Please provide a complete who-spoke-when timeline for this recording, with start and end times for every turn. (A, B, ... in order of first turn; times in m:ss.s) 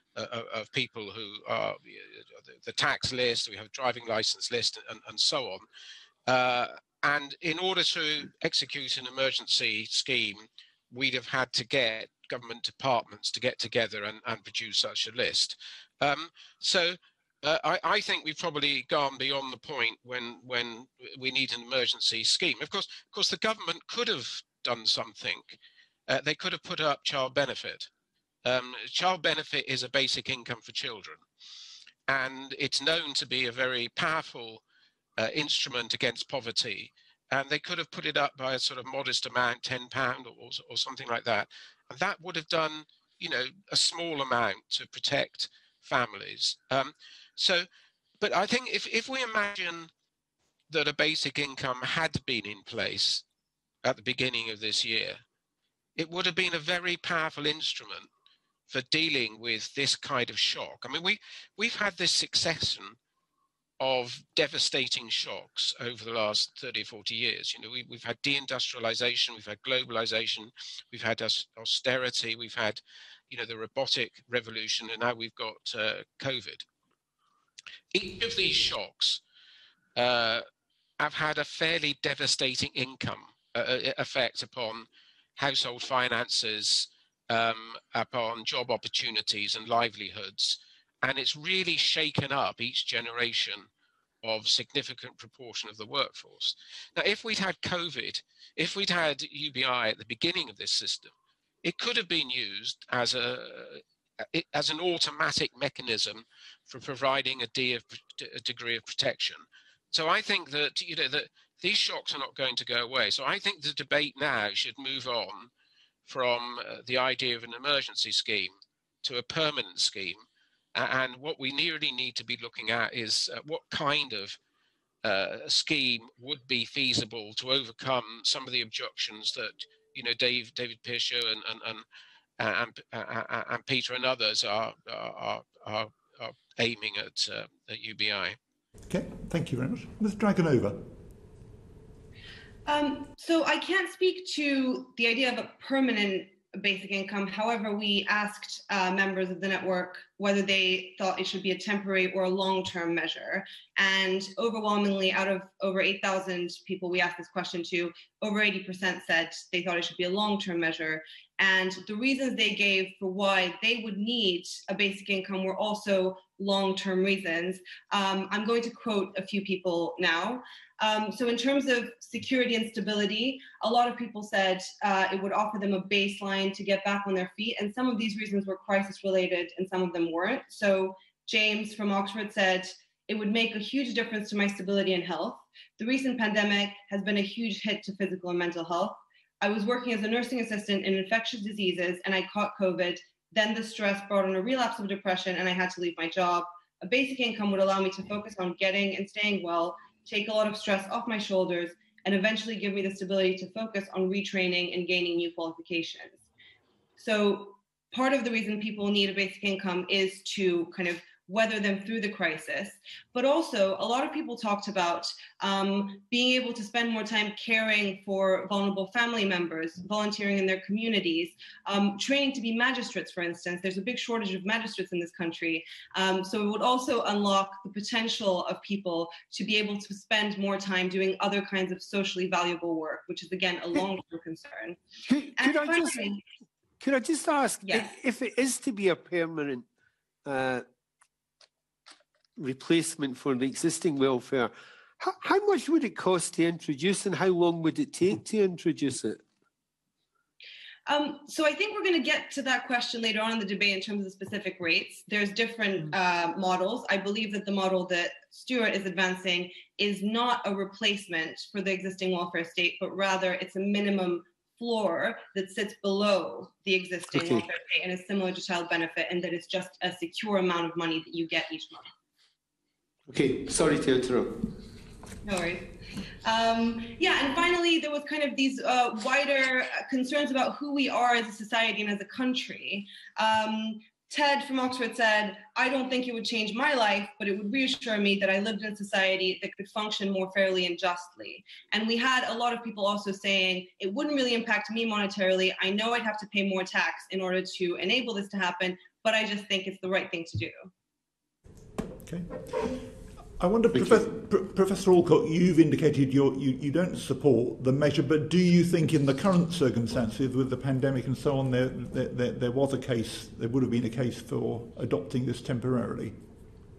0:00.2-0:05.6 A
0:06.3-0:27.9 A
0:28.4-0:31.2 A
0:32.1-0:34.6 A
0:35.2-0:47.7 A
0:48.2-0:49.9 A
0:50.7-0:53.2 A
0:53.8-0:55.2 A
0:56.0-0:58.1 A
0:58.7-1:03.0 A
1:03.8-1:16.6 A
1:17.9-1:19.2 A
1:20.0-1:20.4 A
1:21.0-1:33.7 A
1:34.2-1:41.1 A
1:41.6-1:55.5 A
1:56.0-1:58.5 A
1:59.0-2:00.2 A
2:00.7-2:04.4 A
2:05.0-2:11.8 A
2:12.4-2:18.4 A
2:18.9-2:20.9 B
2:22.6-3:26.2 C
3:27.0-3:54.8 C
3:55.1-3:56.2 D
3:55.4-3:56.2 C
3:56.8-3:59.6 D
3:57.6-3:57.9 C
4:00.2-4:00.6 D
4:02.4-4:09.2 D
4:10.9-4:31.9 C
4:27.1-4:27.5 D
4:33.1-4:34.4 D
4:35.2-4:35.7 C
4:36.2-5:00.7 C
5:02.0-5:02.8 B
5:03.4-5:16.2 B
5:03.7-5:04.0 D